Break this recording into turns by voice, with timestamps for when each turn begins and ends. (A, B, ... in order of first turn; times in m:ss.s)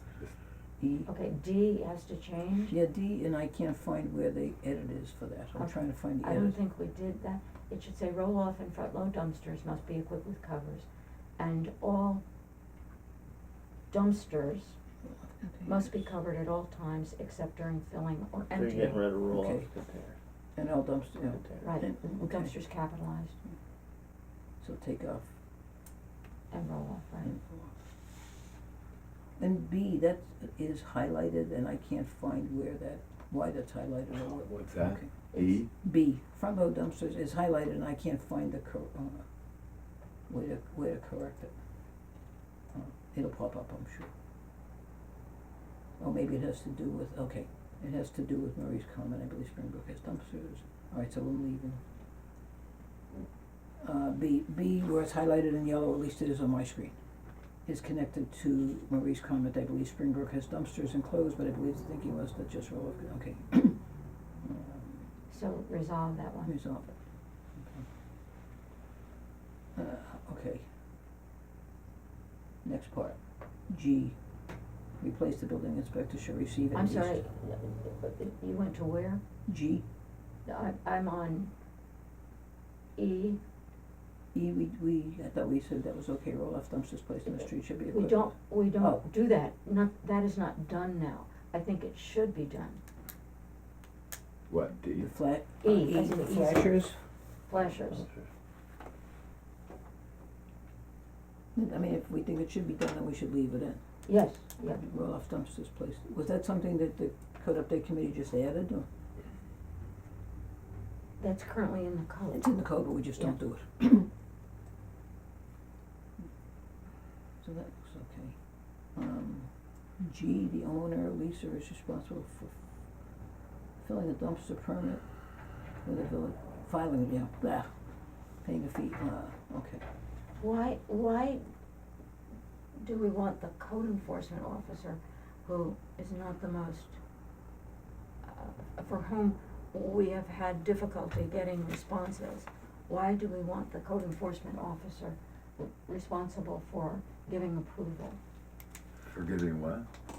0:00.8-0:01.1 A
0:01.0-0:02.7 B
0:02.7-0:06.6 A
0:05.6-0:10.8 B
0:11.4-0:12.2 B
0:13.9-0:14.8 B
0:15.3-0:15.9 A
0:15.6-0:19.0 B
0:18.5-0:20.2 C
0:19.3-0:19.7 A
0:20.6-0:22.5 A
0:21.3-0:21.7 C
0:21.6-0:23.3 B
0:24.6-0:25.3 A
0:26.5-0:27.3 B
0:27.2-0:27.7 A
0:29.4-0:35.1 A
0:34.4-0:35.7 D
0:35.3-0:35.6 B
0:35.7-0:39.2 A
0:40.3-0:41.5 A
0:42.7-0:44.1 A
0:46.0-0:51.8 A
0:53.8-0:57.0 A
0:57.6-1:03.8 A
1:04.4-1:05.0 A
1:05.3-1:06.5 B
1:06.4-1:06.9 A
1:07.6-1:07.8 A
1:09.7-1:10.6 A
1:12.6-1:13.2 A
1:13.7-1:14.2 A
1:15.0-1:17.2 A
1:16.7-1:19.2 B
1:19.5-1:19.8 A
1:20.4-1:21.5 B
1:23.0-1:23.4 B
1:24.3-1:29.0 A
1:27.9-1:32.8 B
1:34.5-1:35.1 D
1:35.0-1:37.0 A
1:35.6-1:36.7 B
1:37.5-1:38.1 B
1:41.5-1:43.8 A
1:44.0-1:44.8 B
1:44.8-1:48.9 A
1:51.2-1:52.5 B
1:52.3-1:54.1 A
1:57.4-1:58.4 A
1:59.0-2:02.6 A
2:03.8-2:05.0 A
2:05.8-2:07.7 A
2:08.4-2:09.8 A
2:10.4-2:11.4 B
2:12.8-2:17.0 B
2:18.2-2:28.2 B
2:29.1-2:29.9 D